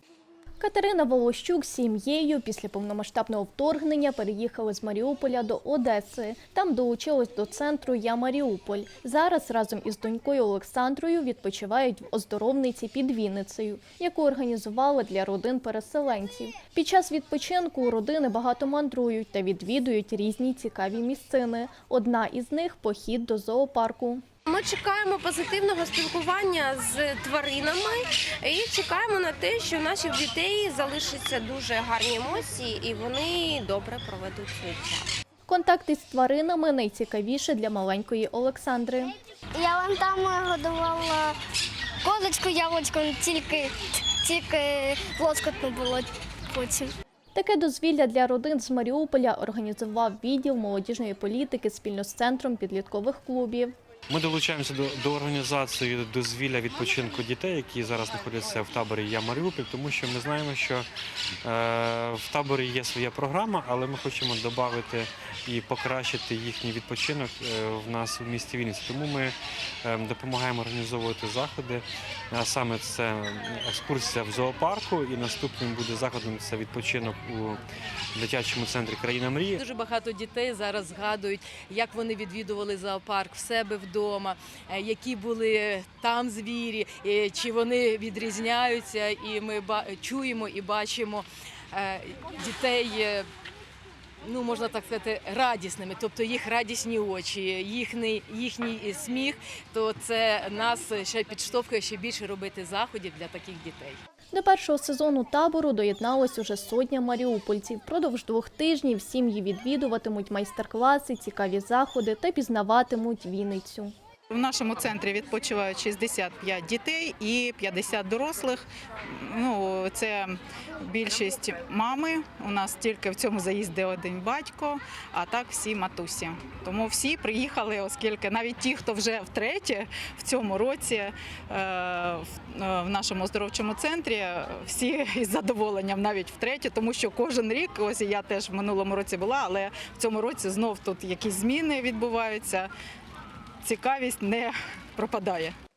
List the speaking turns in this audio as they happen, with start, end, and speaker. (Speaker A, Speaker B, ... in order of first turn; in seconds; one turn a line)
Speaker A: 0.6-24.2
Speaker B: 24.5-35.1
Speaker A: 35.5-39.1
Speaker C: 39.5-41.4
Speaker C: 42.0-46.9
Speaker A: 47.3-53.7
Speaker D: 54.1-60.9
Speaker D: 61.4-77.6
Speaker D: 78.1-79.6
Speaker E: 79.5-93.3
Speaker E: 94.2-104.0
Speaker A: 104.3-113.9
Speaker F: 114.3-142.7
Speaker F: 143.6-145.5